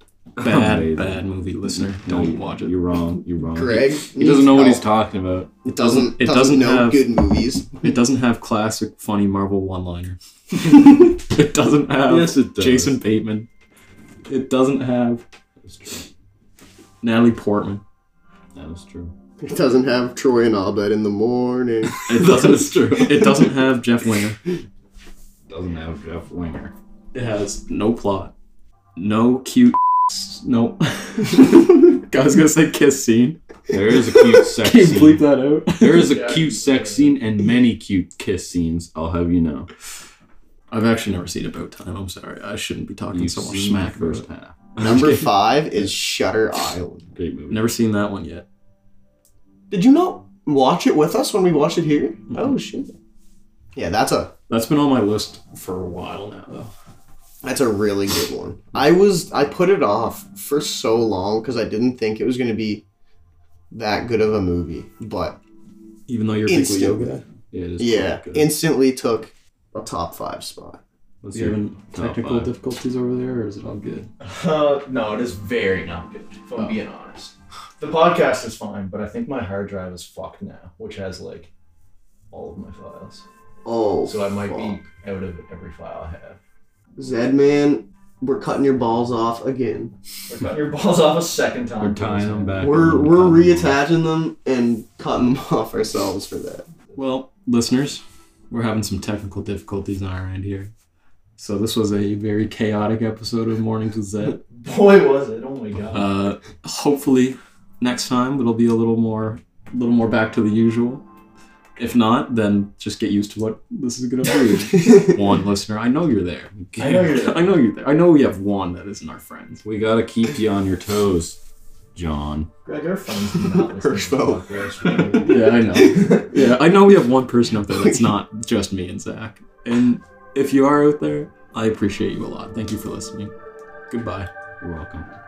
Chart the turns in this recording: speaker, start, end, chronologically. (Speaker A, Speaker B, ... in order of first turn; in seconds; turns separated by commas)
Speaker A: 0.4-5.5, Speaker B: 0.4-2.8, Speaker C: 3.5-4.9, Speaker C: 5.7-7.9, Speaker B: 5.7-7.1, Speaker B: 7.8-13.5, Speaker A: 12.1-13.0, Speaker B: 14.3-15.2, Speaker A: 15.6-16.1, Speaker B: 17.0-17.8, Speaker A: 18.6-19.1, Speaker C: 19.4-22.1, Speaker B: 22.1-24.4, Speaker A: 22.1-23.2, Speaker A: 25.5-26.8, Speaker B: 27.1-28.3, Speaker B: 29.0-33.4, Speaker A: 33.7-39.7, Speaker B: 34.3-36.2, Speaker D: 36.3-37.0, Speaker B: 40.7-45.3, Speaker A: 43.1-44.6, Speaker C: 44.8-47.1, Speaker A: 47.2-47.7, Speaker B: 47.5-48.5, Speaker C: 49.7-52.9, Speaker C: 53.8-54.3, Speaker B: 54.5-56.7, Speaker C: 57.4-62.8, Speaker C: 63.7-65.4, Speaker B: 66.1-67.2, Speaker C: 66.5-67.1, Speaker A: 67.5-68.5, Speaker C: 67.8-70.8, Speaker A: 71.2-72.5, Speaker B: 71.3-74.1, Speaker D: 74.2-81.5, Speaker D: 82.3-83.2, Speaker C: 83.7-84.8, Speaker D: 84.0-86.4, Speaker C: 87.0-90.0, Speaker D: 90.3-92.6, Speaker A: 91.8-93.8, Speaker C: 92.6-96.7, Speaker B: 97.0-100.7, Speaker B: 101.4-104.4, Speaker D: 104.4-106.1, Speaker B: 105.9-111.0, Speaker B: 111.8-119.7, Speaker A: 116.7-117.1, Speaker D: 116.8-117.5, Speaker A: 119.6-121.4, Speaker A: 122.0-122.5, Speaker D: 122.7-126.3, Speaker C: 123.6-126.1, Speaker B: 125.2-133.3, Speaker B: 133.9-134.3, Speaker A: 134.6-135.1